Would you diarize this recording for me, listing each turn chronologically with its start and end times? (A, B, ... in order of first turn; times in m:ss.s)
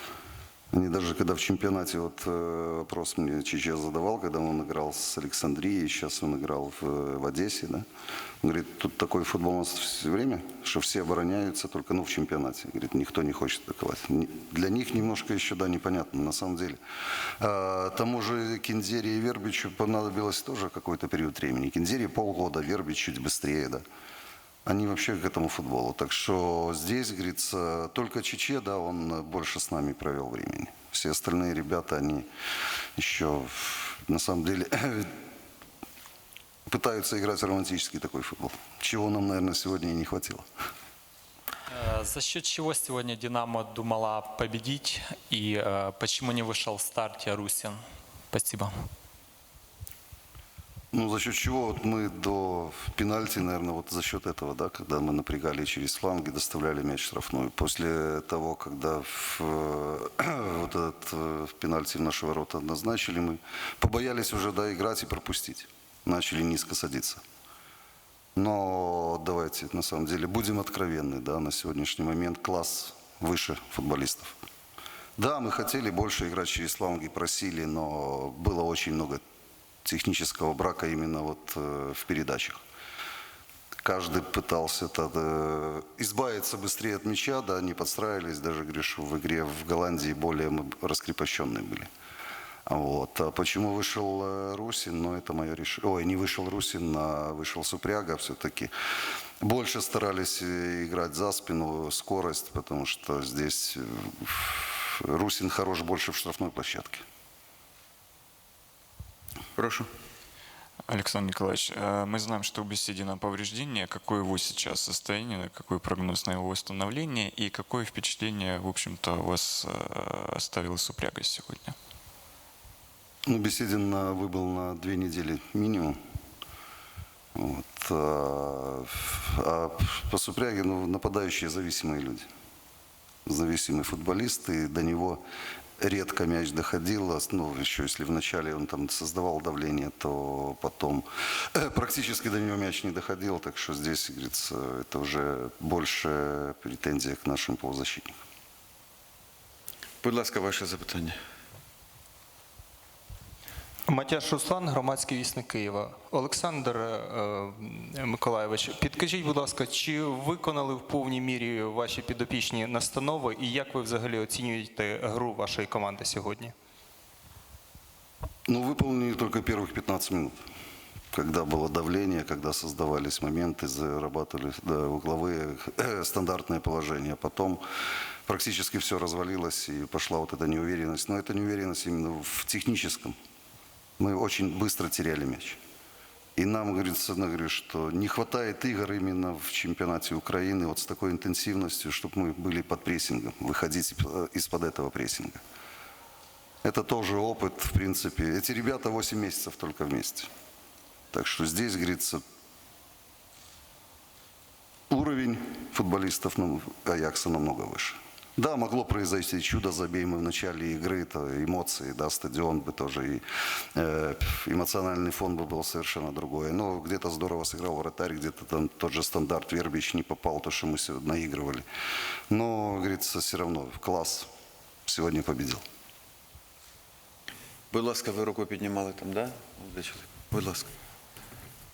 0:00.7-0:07.8 A
0:08.4-0:16.8 A
0:17.4-0:23.8 A
0:24.6-0:32.3 A
0:33.0-0:35.1 A
0:36.7-0:40.5 A
0:41.7-0:48.8 B
0:50.9-1:07.2 A
1:08.3-1:14.4 A
1:15.2-1:19.2 A
1:19.8-1:22.6 A
1:23.8-1:31.9 A
1:32.6-1:38.7 A
1:39.4-1:47.0 A
1:49.6-1:49.8 C
1:50.9-2:01.7 D
2:03.2-2:06.0 A
2:07.3-2:12.3 A
2:13.2-2:15.2 A
2:15.8-2:28.2 A
2:30.0-2:31.1 C
2:33.9-2:46.5 E
2:48.5-2:50.4 A
2:51.1-2:57.6 A
2:58.2-3:03.2 A
3:04.0-3:05.6 A
3:06.4-3:15.4 A
3:16.6-3:20.3 A
3:21.1-3:22.2 A
3:24.9-3:33.2 A
3:33.7-3:41.6 A
3:42.3-3:44.3 A
3:44.9-3:45.6 A
3:47.7-3:50.6 C